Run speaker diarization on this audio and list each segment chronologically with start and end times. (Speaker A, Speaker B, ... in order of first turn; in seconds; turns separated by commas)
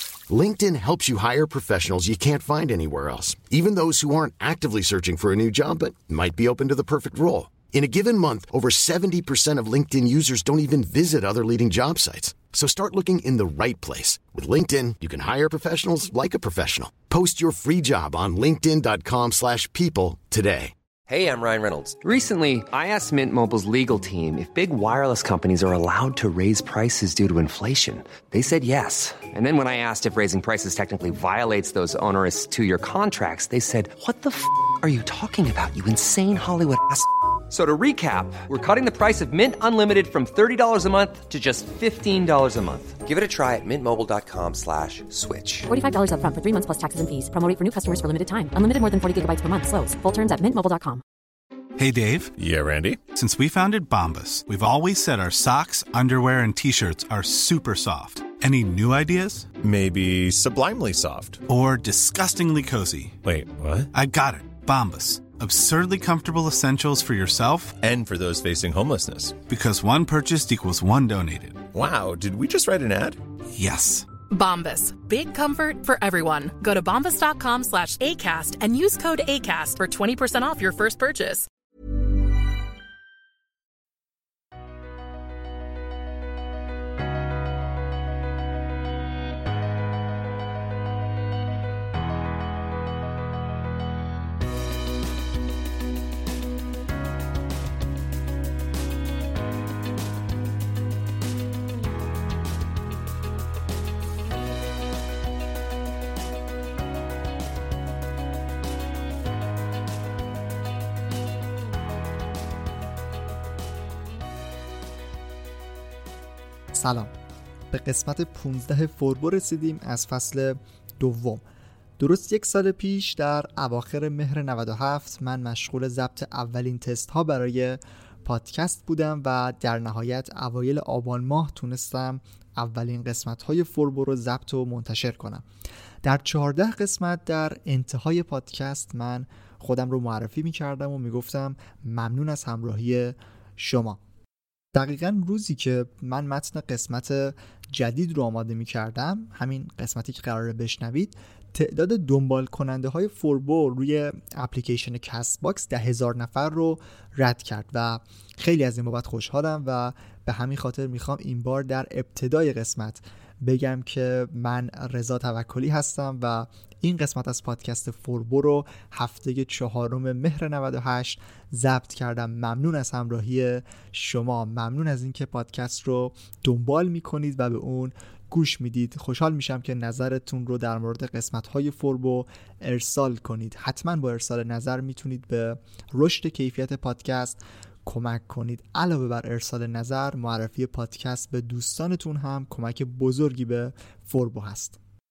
Speaker A: 0.3-20.7, Speaker B: 21.1-45.7, Speaker C: 45.7-51.0, Speaker D: 51.8-52.3, Speaker E: 52.4-53.0, Speaker D: 53.1-59.5, Speaker E: 59.6-61.4, Speaker D: 61.5-63.2, Speaker E: 63.2-63.9, Speaker D: 63.9-67.8, Speaker E: 67.8-69.4, Speaker D: 69.5-71.6, Speaker E: 71.7-73.2, Speaker D: 73.5-74.1, Speaker F: 74.3-81.5, Speaker G: 116.7-117.1, Speaker G: 117.7-121.4, Speaker G: 122.0-135.4, Speaker G: 136.0-144.0, Speaker G: 144.7-194.8